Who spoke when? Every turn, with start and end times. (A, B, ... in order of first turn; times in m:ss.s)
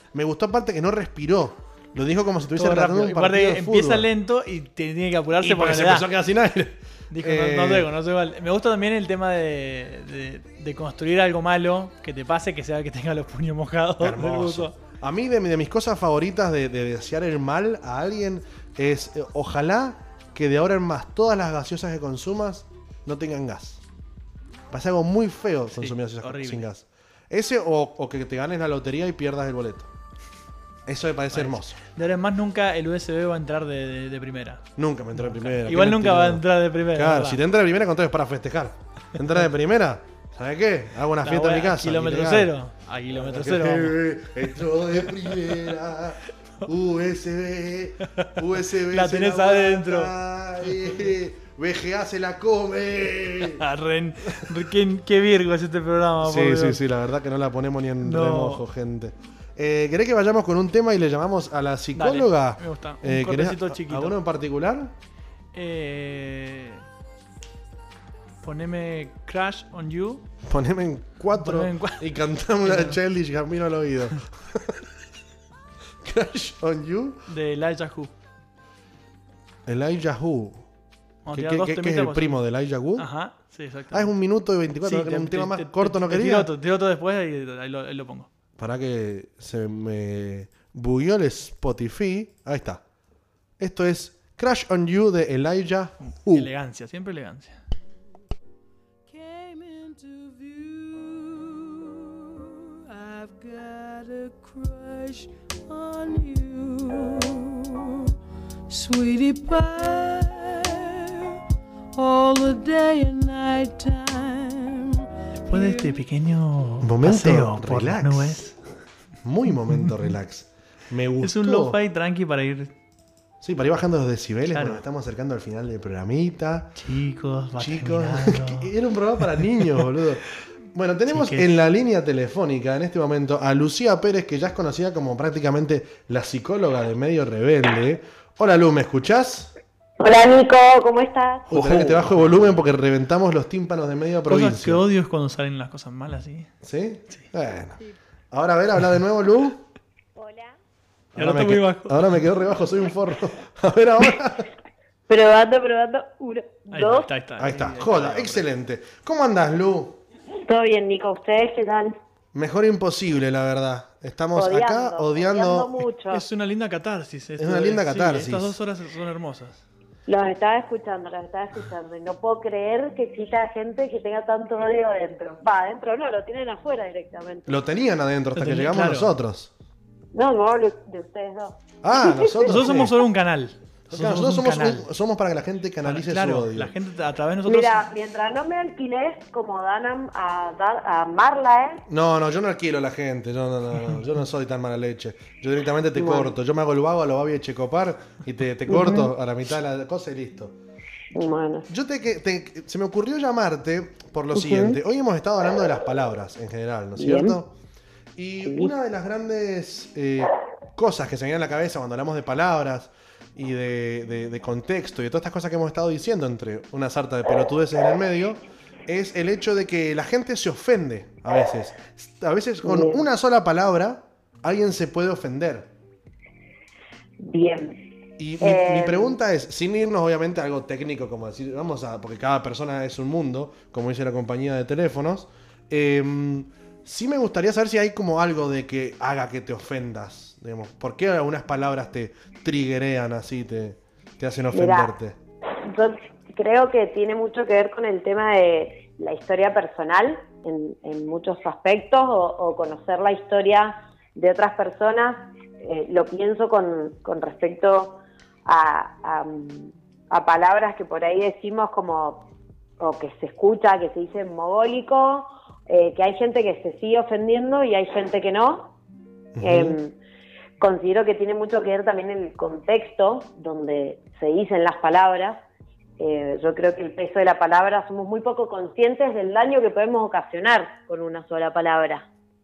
0:00.1-0:04.1 A
0:02.6-0:06.1 B
0:05.4-0:07.9 A
0:07.1-0:14.8 B
0:14.0-0:23.8 A
0:24.7-0:29.9 A
0:25.8-0:26.7 B
0:30.9-0:31.8 A
0:31.3-0:34.6 B
0:34.8-0:42.6 A
0:35.2-0:37.4 B
0:41.2-0:44.0 B
0:43.1-0:53.6 A
0:48.2-0:50.1 B
0:53.4-0:56.8 B
0:56.2-1:04.9 A
0:58.0-0:58.6 B
1:02.0-1:04.2 B
1:05.5-1:06.8 B
1:08.4-1:10.2 B
1:10.4-1:14.8 A
1:11.4-1:12.1 B
1:12.6-1:13.0 B
1:16.0-1:17.2 A
1:17.3-1:18.1 B
1:19.6-1:20.6 A
1:21.3-1:22.4 B
1:21.3-1:23.1 A
1:23.0-1:24.1 B
1:23.9-1:26.5 A
1:24.8-1:28.3 B
1:28.6-1:32.8 A
1:33.6-1:36.5 A
1:36.1-1:37.6 B
1:39.1-1:48.1 C
1:48.7-1:51.4 C
1:51.9-1:56.0 C
1:55.5-1:58.6 B
1:56.8-1:58.5 A
1:59.2-2:01.8 A
2:01.2-2:02.7 B
2:03.4-2:06.8 A
2:04.5-2:04.8 B
2:06.8-2:08.7 B
2:07.6-2:19.5 A
2:11.1-2:11.6 B
2:20.0-2:21.7 D
2:21.5-2:24.8 A
2:21.7-2:21.9 B
2:24.3-2:26.5 B
2:26.6-2:27.8 A
2:28.3-2:29.6 A
2:30.2-2:30.6 D
2:31.1-2:34.5 A
2:31.2-2:32.2 B
2:35.1-2:37.1 D
2:36.7-2:38.4 B
2:37.4-2:40.0 A
2:40.4-2:42.0 D
2:42.3-2:45.8 A
2:44.3-2:46.2 D
2:46.1-2:49.6 B
2:47.4-2:48.6 A
2:50.1-2:57.6 D
2:57.5-2:59.5 A
2:58.4-2:59.1 B
3:00.1-3:02.7 D
3:01.8-3:02.9 A
3:02.4-3:04.9 B
3:03.9-3:06.7 A
3:05.8-3:07.9 B
3:07.4-3:11.8 D
3:11.9-3:20.6 A
3:16.0-3:16.4 D
3:18.7-3:19.1 D
3:21.1-3:21.7 D
3:21.7-3:27.5 A
3:24.3-3:24.8 D
3:27.0-3:27.4 D
3:28.2-3:45.7 A
3:28.4-3:28.7 D
3:42.6-3:43.0 D
3:47.2-3:47.9 D
3:48.2-4:05.2 A
3:48.4-3:49.2 D
4:04.5-4:05.0 D
4:05.6-4:22.3 D
4:22.8-4:28.7 D
4:29.4-4:29.8 A
4:29.4-4:30.0 D
4:30.6-4:35.4 D
4:36.0-4:42.1 D